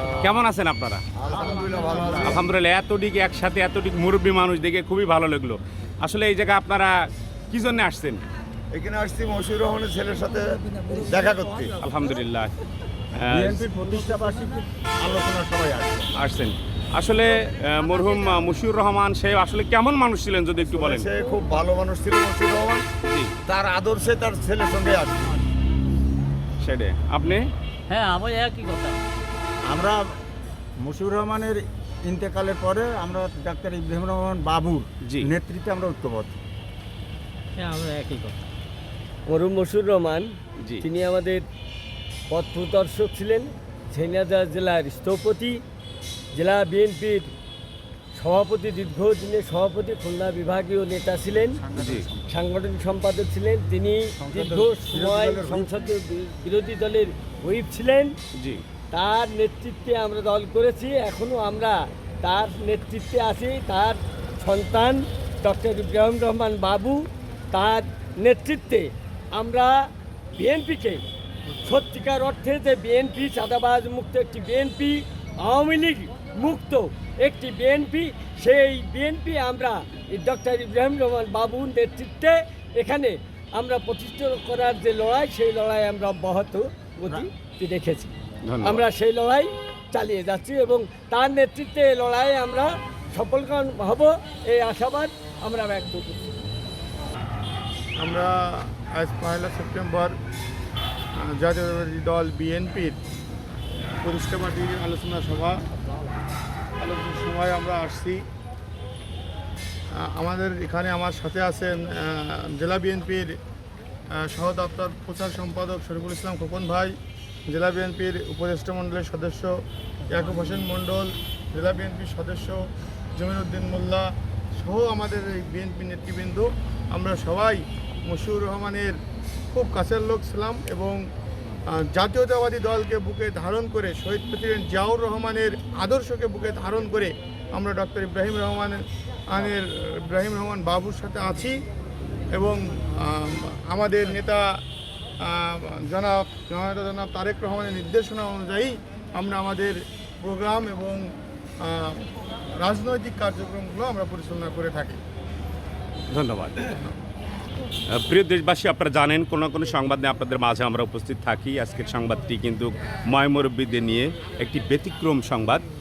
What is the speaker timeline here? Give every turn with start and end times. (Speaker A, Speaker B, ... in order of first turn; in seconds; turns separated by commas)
Speaker A: 0.2-1.0, Speaker B: 1.2-2.4, Speaker A: 2.2-6.9, Speaker A: 7.5-8.2, Speaker B: 8.7-11.7, Speaker A: 11.8-12.5, Speaker A: 13.1-13.7, Speaker C: 13.3-14.7, Speaker B: 15.0-16.1, Speaker A: 16.1-21.1, Speaker B: 20.7-22.8, Speaker A: 23.1-23.3, Speaker B: 23.4-25.3, Speaker A: 26.6-27.5, Speaker D: 27.9-29.0, Speaker C: 29.6-30.1, Speaker C: 30.8-36.3, Speaker A: 35.0-35.3, Speaker D: 37.5-38.4, Speaker E: 39.3-41.4, Speaker A: 40.6-40.8, Speaker E: 42.3-45.6, Speaker E: 46.3-47.3, Speaker E: 48.2-51.6, Speaker C: 51.3-52.4, Speaker A: 51.7-52.1, Speaker E: 52.3-58.1, Speaker C: 54.2-55.9, Speaker A: 58.3-58.6, Speaker E: 58.9-69.7, Speaker E: 70.3-71.0, Speaker E: 71.6-96.3, Speaker A: 88.4-88.8, Speaker F: 98.0-100.1, Speaker F: 101.2-103.0, Speaker F: 104.0-105.6, Speaker F: 106.8-108.2, Speaker F: 110.0-113.3, Speaker F: 114.1-117.0, Speaker F: 117.5-119.5, Speaker F: 120.1-129.0, Speaker F: 129.5-131.0, Speaker F: 131.7-141.6, Speaker F: 142.3-144.6, Speaker F: 145.2-151.1, Speaker F: 151.6-152.1, Speaker F: 152.6-155.0, Speaker A: 156.1-156.8, Speaker A: 157.9-165.6